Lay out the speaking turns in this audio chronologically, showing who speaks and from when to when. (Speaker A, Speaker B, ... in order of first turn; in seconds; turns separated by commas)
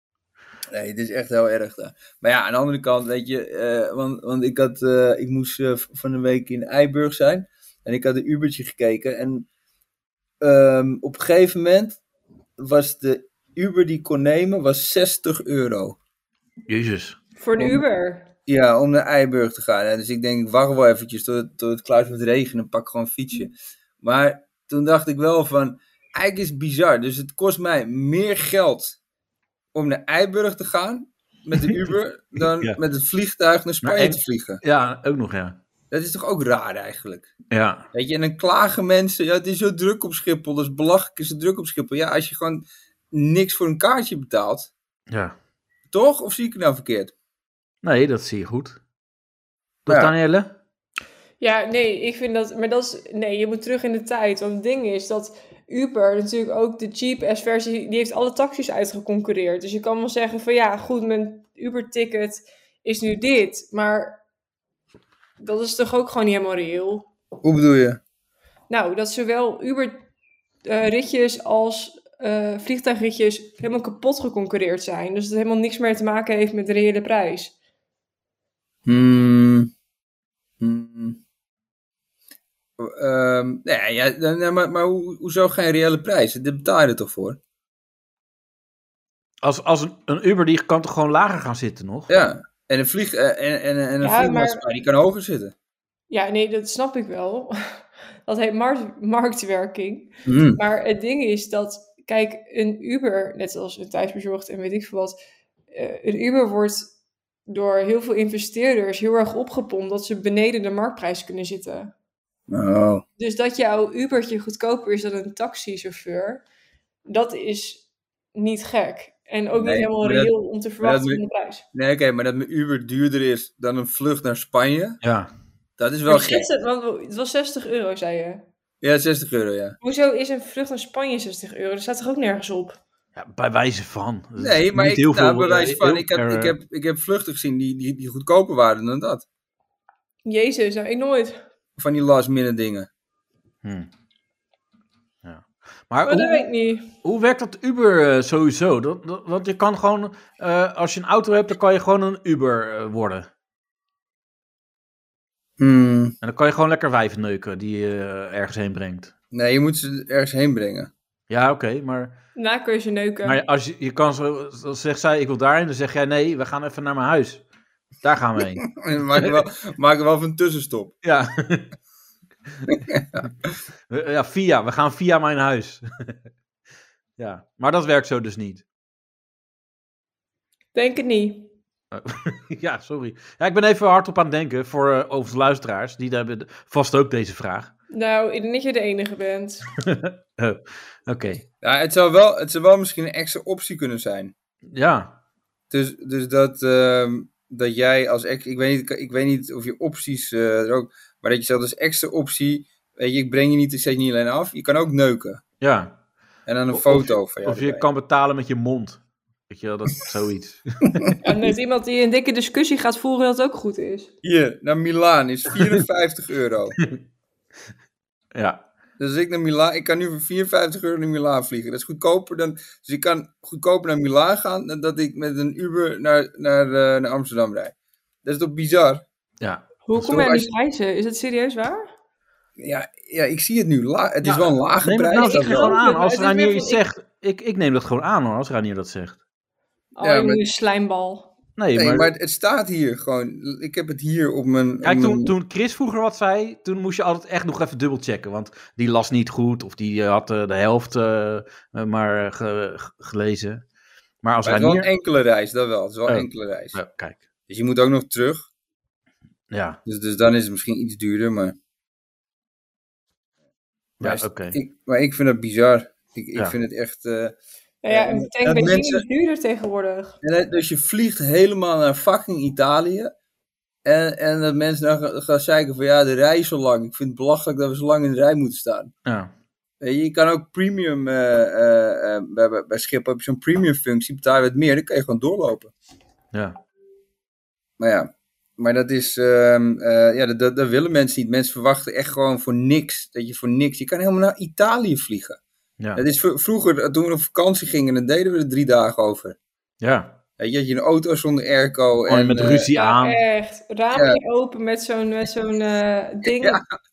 Speaker A: 0.7-9.5, Speaker A: 10.4-12.0, Speaker A: 12.6-16.0, Speaker B: 16.7-17.2, Speaker C: 17.4-18.3, Speaker A: 18.5-29.0, Speaker A: 29.7-34.6, Speaker B: 33.8-35.6, Speaker A: 35.9-37.3, Speaker B: 37.5-37.8, Speaker A: 37.9-44.7, Speaker B: 45.1-45.4, Speaker A: 45.9-47.1, Speaker B: 47.8-48.8, Speaker A: 49.9-50.1, Speaker B: 49.9-50.5, Speaker C: 51.4-64.2, Speaker C: 65.4-67.1, Speaker A: 67.4-68.0, Speaker C: 68.7-70.0, Speaker C: 70.6-77.5, Speaker A: 78.8-79.7, Speaker A: 80.6-81.2, Speaker A: 82.8-87.4, Speaker B: 89.4-92.1, Speaker A: 92.1-95.5, Speaker C: 94.0-94.6, Speaker C: 96.1-105.2, Speaker A: 100.2-100.6, Speaker C: 105.7-106.9, Speaker C: 107.5-111.9, Speaker A: 112.5-113.0, Speaker C: 113.2-116.4, Speaker C: 117.1-117.8, Speaker C: 118.3-121.7, Speaker A: 119.5-125.0, Speaker B: 125.0-125.3, Speaker A: 125.8-126.5, Speaker C: 126.1-128.4, Speaker A: 128.8-129.8, Speaker C: 129.8-132.8, Speaker B: 133.2-136.6, Speaker A: 134.4-139.2, Speaker C: 140.2-141.4, Speaker A: 141.8-142.9, Speaker B: 143.6-143.9, Speaker B: 145.2-153.3, Speaker C: 146.0-146.9, Speaker A: 155.6-156.1, Speaker B: 156.2-159.1, Speaker A: 159.3-160.9, Speaker B: 161.3-162.2, Speaker C: 162.3-163.4, Speaker B: 163.2-167.4, Speaker B: 168.0-169.3, Speaker A: 168.7-171.0, Speaker B: 171.0-171.7, Speaker A: 172.9-173.5, Speaker B: 173.9-176.2, Speaker B: 177.2-178.6, Speaker C: 180.7-181.5, Speaker B: 181.9-187.7, Speaker C: 187.9-189.7, Speaker B: 189.8-191.4, Speaker A: 191.6-194.3, Speaker B: 194.7-195.2, Speaker A: 195.7-205.4, Speaker B: 205.6-206.0, Speaker A: 206.4-207.9, Speaker B: 206.7-210.9, Speaker C: 211.2-214.1, Speaker A: 214.2-216.8, Speaker B: 218.3-218.6, Speaker A: 219.0-229.0, Speaker C: 229.8-231.9, Speaker A: 230.0-230.5, Speaker A: 232.6-235.8, Speaker B: 234.2-239.2, Speaker C: 235.1-236.8, Speaker C: 239.9-241.3, Speaker A: 240.0-240.4, Speaker B: 241.6-242.1, Speaker A: 241.7-245.3, Speaker B: 244.8-253.6, Speaker B: 254.2-254.9, Speaker A: 254.4-256.8, Speaker B: 256.1-257.2, Speaker A: 257.5-258.5, Speaker B: 259.5-259.8, Speaker A: 259.9-261.6, Speaker B: 264.0-264.6, Speaker A: 264.0-267.4, Speaker C: 267.8-270.1, Speaker A: 267.9-269.0, Speaker A: 270.2-273.1, Speaker A: 273.8-278.9, Speaker B: 279.1-279.3, Speaker A: 279.8-285.7, Speaker B: 286.3-286.6, Speaker A: 287.8-295.4, Speaker A: 295.9-299.4, Speaker B: 299.8-300.2, Speaker A: 300.4-302.7, Speaker B: 302.1-303.2, Speaker C: 302.7-306.6, Speaker A: 303.9-304.2, Speaker A: 306.2-306.6